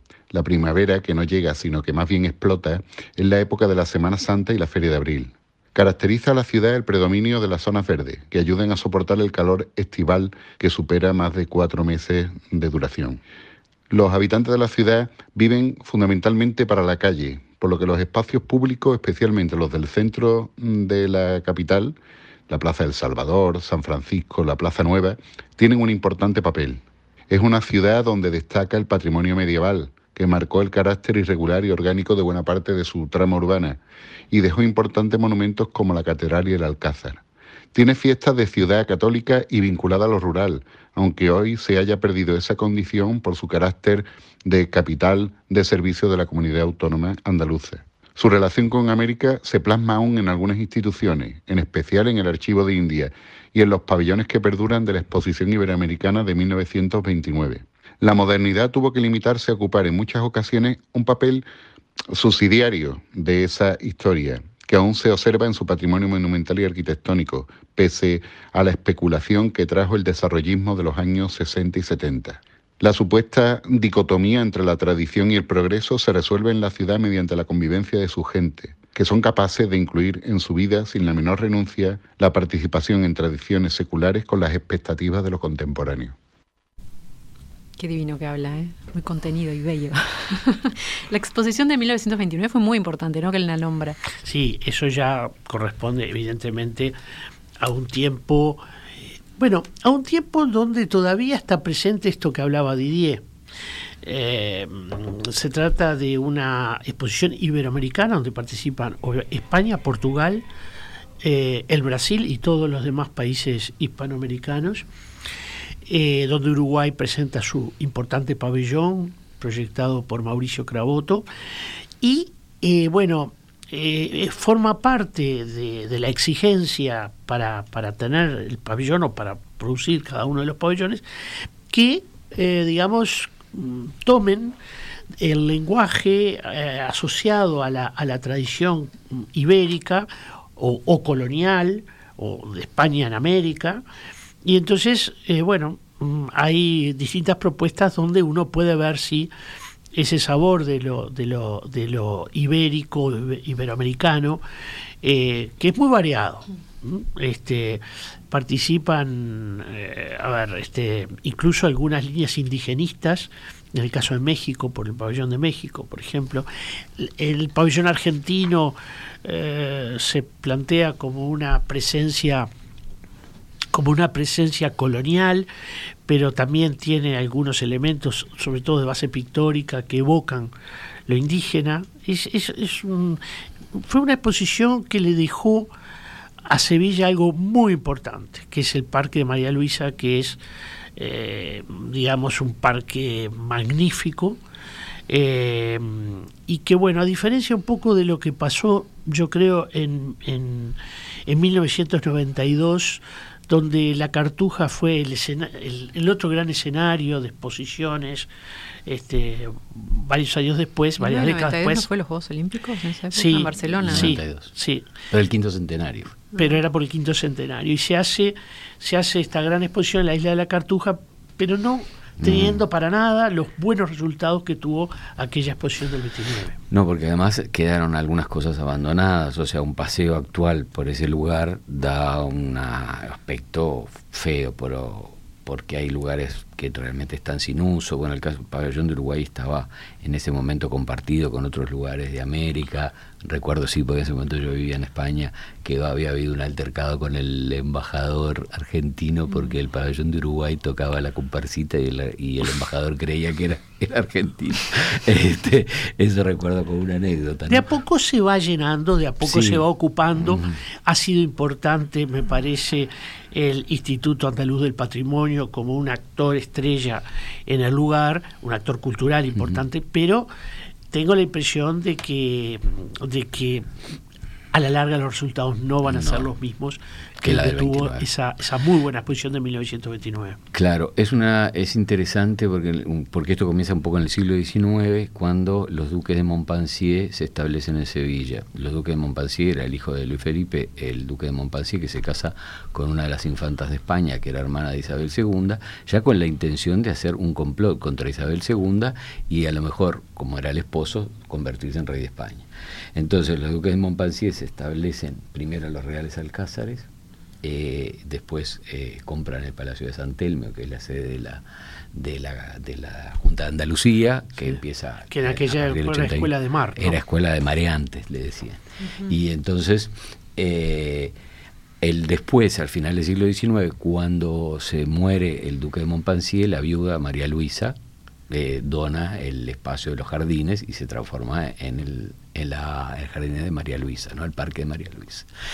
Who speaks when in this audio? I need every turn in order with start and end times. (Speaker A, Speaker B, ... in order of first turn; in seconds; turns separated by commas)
Speaker A: 0.3-13.2, Speaker A: 13.9-22.0, Speaker A: 22.5-33.8, Speaker A: 34.3-37.2, Speaker A: 37.7-61.5, Speaker A: 62.1-86.2, Speaker B: 87.8-94.0, Speaker C: 94.2-97.0, Speaker C: 97.6-98.6, Speaker C: 99.4-103.3, Speaker C: 104.0-110.4, Speaker C: 111.2-114.9, Speaker C: 115.9-121.2, Speaker C: 122.0-131.0, Speaker C: 131.7-134.6, Speaker C: 135.2-143.8, Speaker C: 144.4-149.3, Speaker C: 149.9-154.4, Speaker C: 155.0-172.5, Speaker C: 173.7-175.5, Speaker C: 176.1-180.5, Speaker C: 181.1-183.2, Speaker C: 183.8-185.7, Speaker C: 186.4-190.4, Speaker C: 191.0-194.4, Speaker C: 195.1-208.3, Speaker C: 208.9-211.9, Speaker B: 211.0-214.2, Speaker C: 213.1-214.9, Speaker D: 213.8-214.5, Speaker D: 215.1-216.2, Speaker C: 216.3-226.6, Speaker D: 222.2-222.6, Speaker D: 226.7-257.7, Speaker C: 257.5-270.3, Speaker D: 259.2-259.7, Speaker D: 260.2-260.6, Speaker D: 269.4-269.6, Speaker C: 270.9-273.8, Speaker C: 274.5-280.4, Speaker D: 275.9-276.3, Speaker D: 277.2-278.1, Speaker D: 280.5-306.9, Speaker D: 307.4-321.1, Speaker C: 315.1-316.9, Speaker D: 321.8-327.8, Speaker D: 328.3-335.3